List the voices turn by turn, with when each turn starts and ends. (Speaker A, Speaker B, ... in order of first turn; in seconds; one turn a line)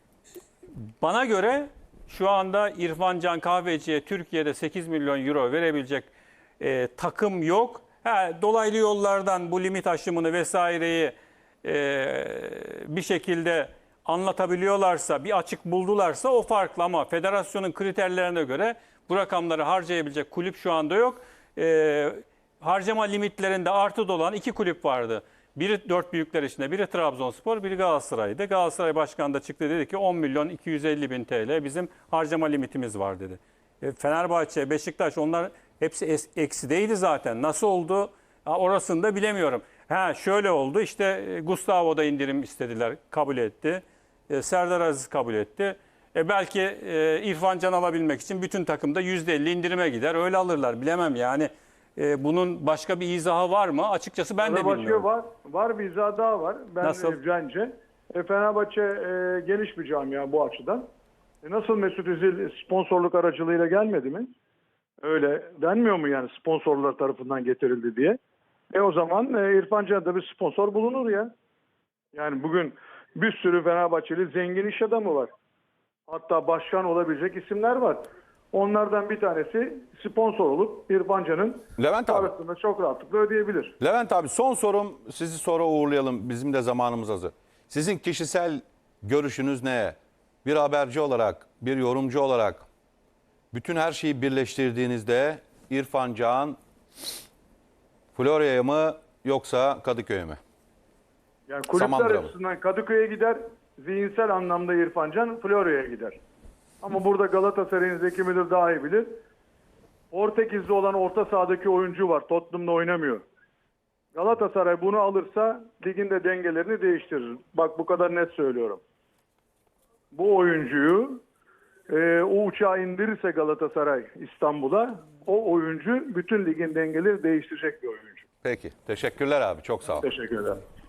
Speaker A: 0.7-6.1
Speaker A: 6.6-55.0
Speaker B: 54.4-60.9
Speaker A: 56.8-57.2
Speaker B: 61.4-64.3
Speaker B: 65.0-68.2
Speaker B: 68.7-71.3
Speaker B: 72.1-75.3
Speaker B: 76.1-83.8
Speaker C: 81.8-82.3
Speaker C: 83.8-92.6
Speaker C: 93.5-96.6
Speaker C: 98.1-100.4
Speaker B: 101.5-106.2
Speaker C: 101.7-102.3
Speaker B: 106.8-109.2
Speaker B: 110.1-113.2
Speaker B: 114.1-118.8
Speaker B: 120.1-121.2
Speaker B: 121.9-128.2
Speaker C: 128.4-130.1
Speaker B: 130.0-130.6